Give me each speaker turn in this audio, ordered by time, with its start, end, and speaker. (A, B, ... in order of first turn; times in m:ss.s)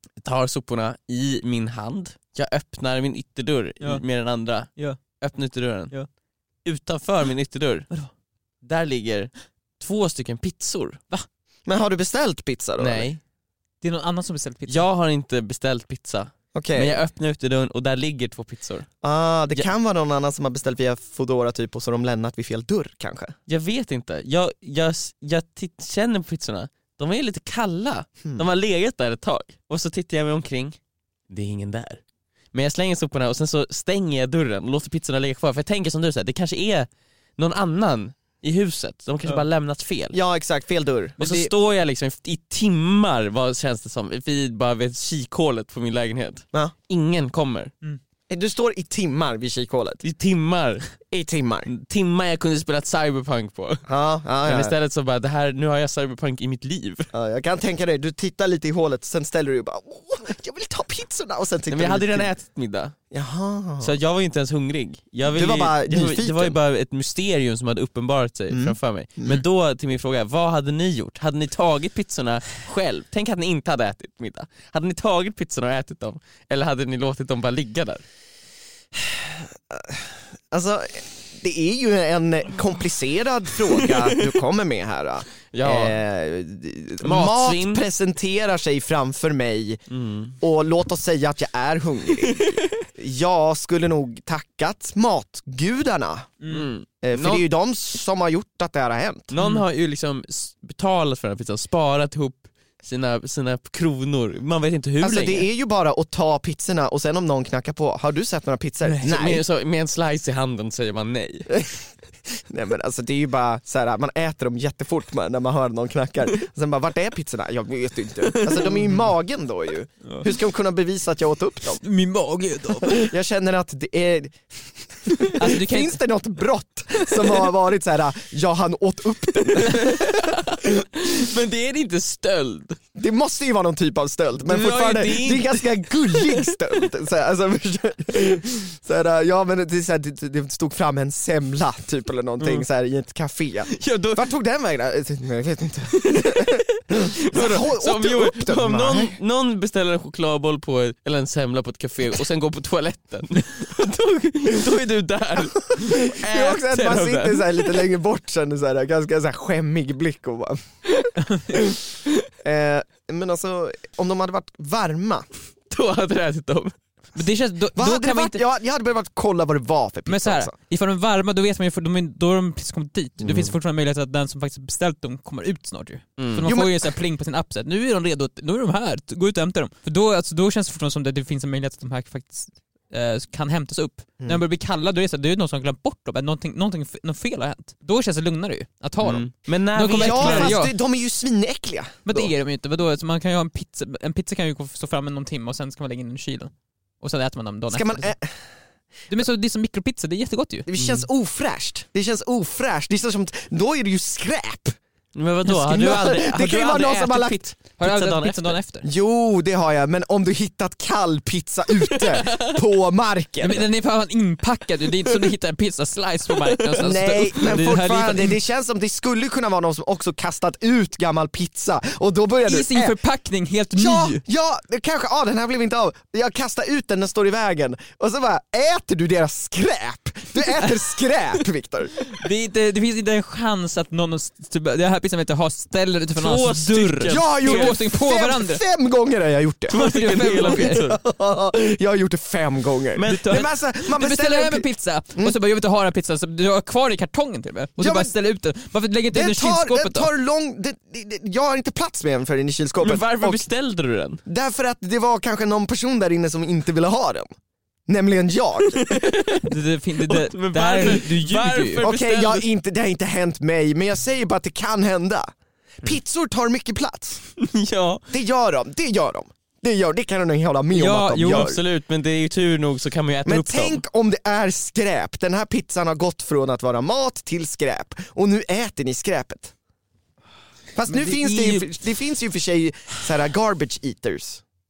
0:00.2-0:05.9 A
0:06.6-0:07.9 A
0:08.6-0:11.0 A
0:11.6-0:13.1 B
0:12.8-0:13.2 A
0:13.8-0:14.8 C
0:14.7-0:18.9 A
0:16.5-0:17.0 B
0:19.0-0:23.3 B
0:23.5-0:30.8 A
0:31.3-0:32.0 A
0:32.5-0:40.2 A
0:40.1-0:41.2 B
0:41.2-0:41.5 C
0:41.2-0:47.7 A
0:48.3-0:50.0 B
0:50.0-0:51.0 A
0:51.1-0:51.7 B
0:51.7-0:53.8 A
0:53.9-0:54.7 B
0:54.4-0:57.1 A
0:57.1-1:02.3 B
1:01.7-1:02.9 A
1:03.1-1:03.9 B
1:03.8-1:18.0 A
1:05.2-1:06.6 B
1:08.5-1:09.4 B
1:18.9-1:29.8 B
1:25.5-1:26.0 A
1:27.0-1:27.8 A
1:29.9-1:30.3 A
1:30.4-1:36.3 B
1:32.2-1:32.7 A
1:36.4-1:36.7 C
1:36.5-1:37.4 A
1:37.0-1:39.3 B
1:39.3-1:45.5 A
1:39.4-1:39.6 C
1:45.0-1:49.4 B
1:49.0-1:51.6 A
1:52.5-2:01.8 B
1:58.3-1:58.7 A
2:01.8-2:03.1 C
2:02.9-2:04.5 B
2:05.0-2:10.4 B
2:05.4-2:06.0 C
2:09.6-2:12.8 A
2:13.0-2:29.2 B
2:14.4-2:16.6 A
2:23.7-2:24.3 A
2:25.9-2:37.8 A
2:35.8-2:40.6 B
2:42.4-2:45.2 B
2:45.7-2:46.7 A
2:47.2-2:48.4 C
2:47.8-2:50.5 B
2:50.1-3:10.7 C
2:53.2-2:53.5 B
2:56.2-2:56.5 A
2:56.4-2:56.8 B
3:09.0-3:10.6 A
3:09.9-3:12.3 B
3:12.0-3:18.1 C
3:17.7-3:18.4 B
3:19.1-3:20.7 C
3:20.7-3:24.8 B
3:20.8-3:21.0 A
3:25.1-3:28.6 A
3:25.5-3:27.4 B
3:27.8-3:28.9 C
3:28.8-3:33.7 B
3:31.9-3:32.6 A
3:33.4-3:38.4 C
3:36.8-3:43.0 B
3:42.4-3:44.2 C
3:43.7-3:52.0 B
3:52.1-3:58.6 C
3:56.2-3:57.8 A
3:57.1-4:05.3 B
3:59.7-4:01.0 A
3:59.7-4:00.8 C
4:03.0-4:03.4 A
4:03.0-4:10.1 C
4:07.8-4:08.1 B
4:09.1-4:13.4 B
4:12.8-4:14.2 A
4:14.2-4:17.3 B
4:17.9-4:19.0 B
4:18.7-4:19.4 A
4:19.4-4:21.8 C
4:20.0-4:22.4 A
4:21.8-4:25.3 B
4:25.8-4:27.2 B
4:27.4-4:28.0 A
4:28.1-4:31.6 B
4:30.7-4:31.5 C
4:31.2-4:33.8 A
4:33.2-4:39.5 B
4:40.8-4:44.4 B
4:40.9-4:41.7 C